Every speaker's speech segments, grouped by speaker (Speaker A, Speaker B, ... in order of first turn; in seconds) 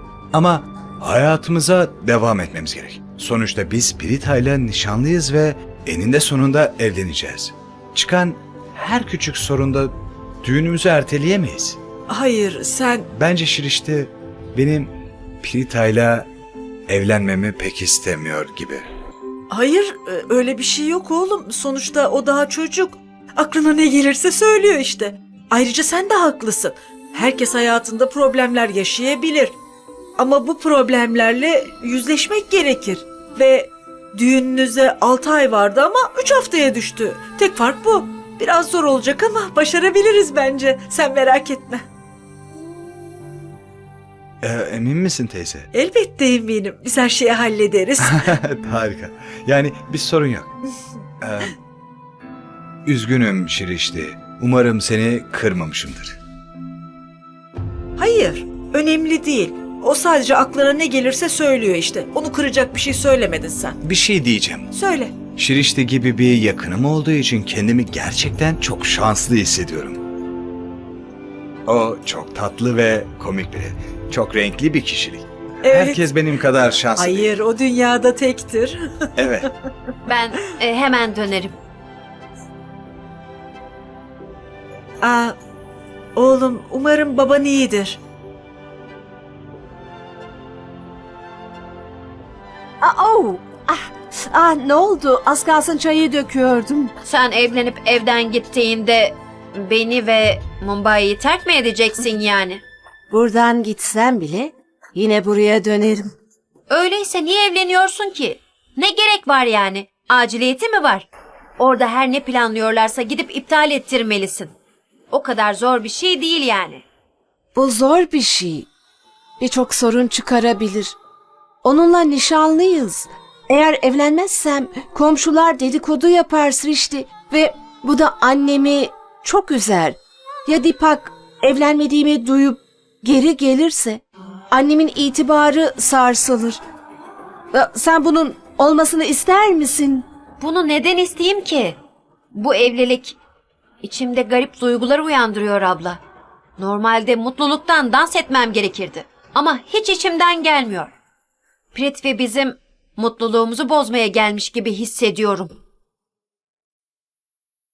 Speaker A: 0.3-11.8, 13.1-16.3, 16.9-18.9, 44.4-45.7, 48.0-50.5, 51.2-51.5, 52.9-56.2, 63.8-64.7, 65.3-70.0, 71.7-77.3, 79.2-79.5
Speaker B: 12.1-13.1, 19.5-29.5, 30.2-41.8, 45.7-48.4, 58.0-63.8, 64.7-65.1, 75.6-76.0, 77.0-78.8, 85.0-85.3, 86.2-88.0
Speaker C: 80.1-81.5, 97.0-102.6, 106.7-111.1, 111.6-114.5, 115.1-116.8, 140.4-141.8, 142.3-143.2, 143.8-146.0, 146.6-150.9, 151.7-155.6
Speaker D: 92.8-96.9, 103.1-106.1, 117.5-118.7, 119.4-121.0, 121.6-136.6, 137.5-140.1